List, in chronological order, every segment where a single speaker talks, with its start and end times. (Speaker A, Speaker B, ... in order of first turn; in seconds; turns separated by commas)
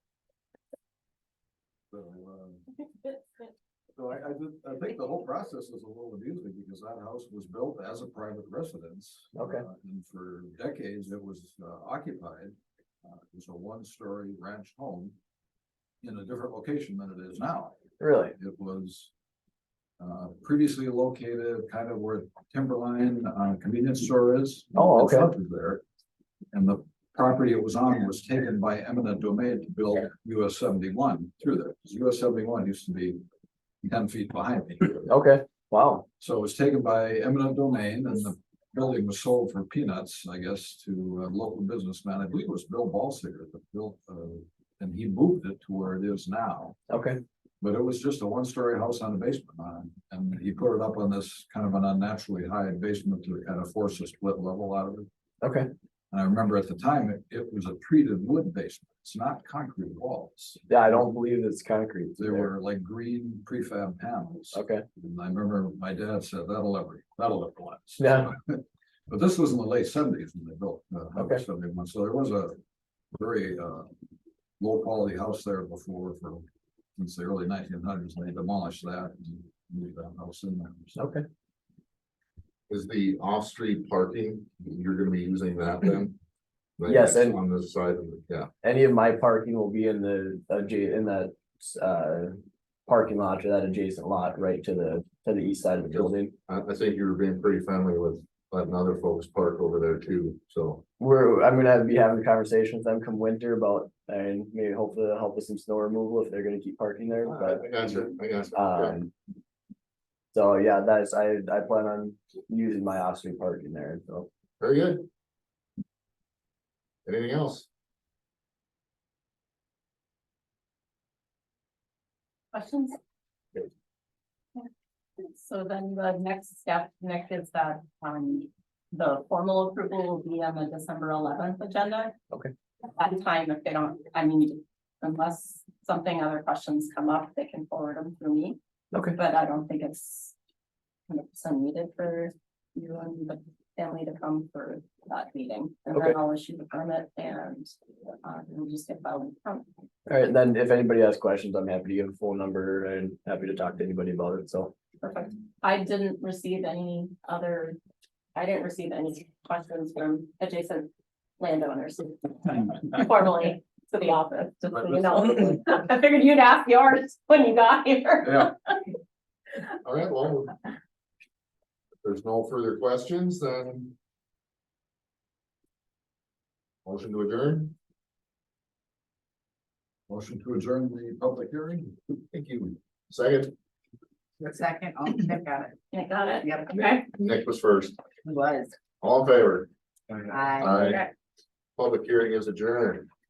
Speaker A: 1.9-2.6, Speaker A: 4.0-15.2, Speaker B: 9.3-9.7, Speaker A: 16.0-17.8, Speaker B: 18.0-18.4, Speaker A: 18.4-19.1, Speaker A: 20.0-25.8, Speaker B: 24.8-25.3, Speaker A: 26.5-33.2, Speaker A: 33.8-35.1, Speaker B: 35.1-36.1, Speaker A: 36.2-46.8, Speaker B: 46.9-47.2, Speaker A: 47.6-55.1, Speaker B: 55.4-55.7, Speaker A: 56.1-60.6, Speaker B: 60.7-62.5, Speaker A: 62.2-72.6, Speaker B: 64.5-64.8, Speaker B: 68.0-68.3, Speaker B: 71.2-71.5, Speaker A: 73.1-73.9, Speaker A: 74.6-76.5, Speaker A: 77.0-81.1, Speaker B: 81.0-81.2, Speaker C: 82.7-86.2, Speaker C: 86.8-88.5, Speaker B: 86.9-87.4, Speaker B: 88.6-96.3, Speaker C: 95.9-100.8, Speaker B: 101.0-109.1, Speaker C: 107.2-109.0, Speaker B: 110.3-114.3, Speaker C: 114.6-115.0, Speaker C: 117.0-117.7, Speaker D: 122.5-123.0, Speaker D: 124.6-132.2, Speaker D: 132.9-138.6, Speaker B: 138.9-139.2, Speaker D: 139.2-140.3, Speaker D: 141.1-149.7, Speaker B: 150.1-154.7, Speaker D: 155.0-157.8, Speaker D: 158.3-168.8, Speaker A: 164.7-165.5, Speaker A: 168.2-168.5, Speaker C: 169.8-170.6, Speaker C: 172.0-173.9, Speaker C: 176.8-177.8, Speaker A: 180.1-181.9, Speaker C: 182.3-183.5, Speaker E: 184.4-185.7, Speaker D: 185.9-187.0, Speaker E: 186.4-186.7, Speaker C: 187.2-188.0, Speaker E: 188.2-188.8, Speaker C: 189.0-189.7, Speaker E: 190.3-191.1, Speaker C: 190.6-191.0, Speaker C: 191.8-193.1